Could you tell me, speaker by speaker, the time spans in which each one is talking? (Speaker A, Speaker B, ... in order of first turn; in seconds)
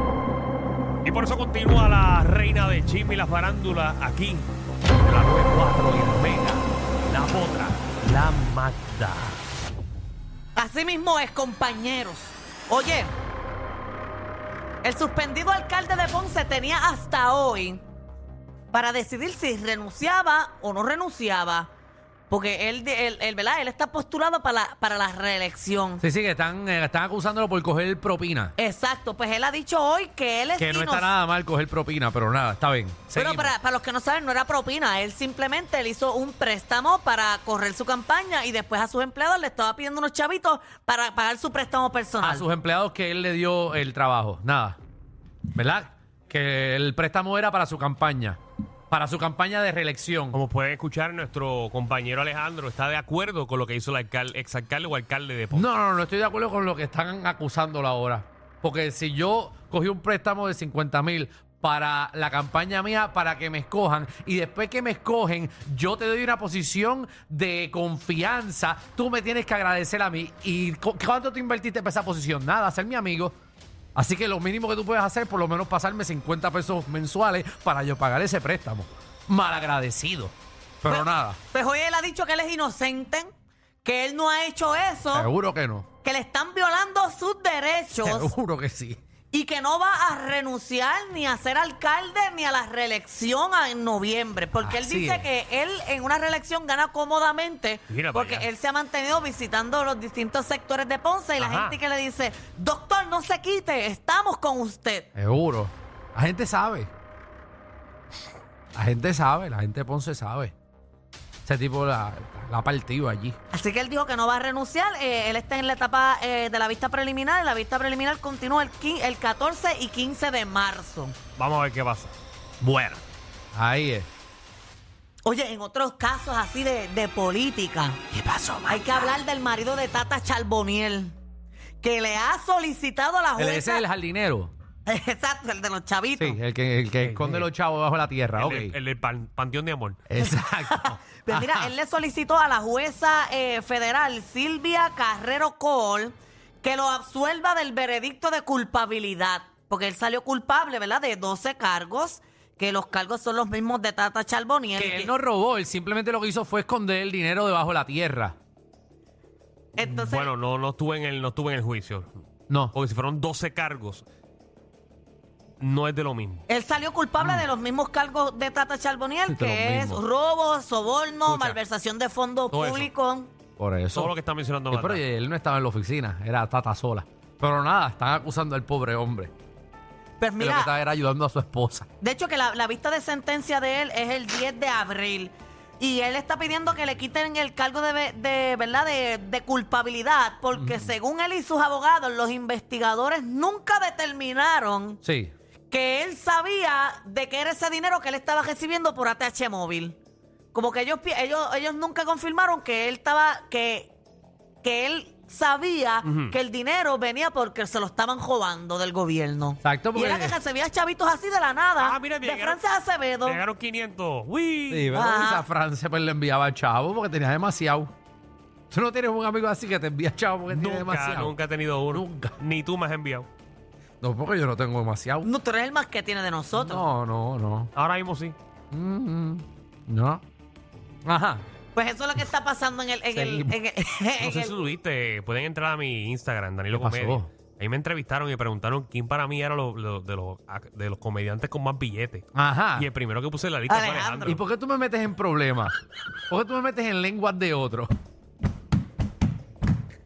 Speaker A: 1.1-9.4, 50.3-55.7, 97.9-98.5, 101.4-101.8, 121.4-123.0, 137.0-137.5, 138.4-140.0, 160.1-162.1, 162.7-164.1, 165.6-166.4, 171.3-171.6, 172.5-172.9, 173.9-175.0, 206.0-206.4, 211.8-212.6, 213.2-214.9, 220.5-223.3, 227.8-228.3, 234.2-244.4
Speaker B: 10.6-13.1, 14.8-17.8, 18.7-21.7, 22.3-26.0, 28.6-31.1, 33.1-42.5, 80.9-83.3, 83.8-85.3, 86.0-88.3, 89.3-105.1, 113.5-121.2, 125.2-128.0, 128.7-131.2, 131.8-133.8, 134.9-136.4, 140.2-155.1, 159.8-160.3, 166.5-173.3, 180.2-180.7, 182.0-195.0, 195.7-200.0, 200.5-203.9, 204.6-213.4, 214.9-215.4, 225.2-226.9, 231.8-234.6, 243.7-244.4
Speaker C: 26.0-28.5, 30.6-33.5, 42.2-44.8, 45.5-48.4, 48.9-50.4, 55.5-73.4, 74.0-81.4, 85.1-85.9, 88.0-89.0, 94.6-95.3, 105.2-106.9, 108.8-110.5, 111.5-113.4, 123.5-124.1, 128.1-129.1, 133.4-134.5, 136.2-138.8, 140.1-141.7, 154.8-158.4, 162.5-162.7, 167.2-167.5, 169.3-170.0, 173.6-174.1, 174.7-179.3, 180.4-181.9, 190.6-190.9, 195.0-195.3, 209.6-210.4, 214.7-217.9, 218.7-221.3, 221.9-222.3, 224.0-225.3, 226.6-227.7, 228.7-230.2, 231.1-231.4, 233.1-233.6, 236.7-237.3, 242.3-242.9, 244.2-245.8, 246.3-247.9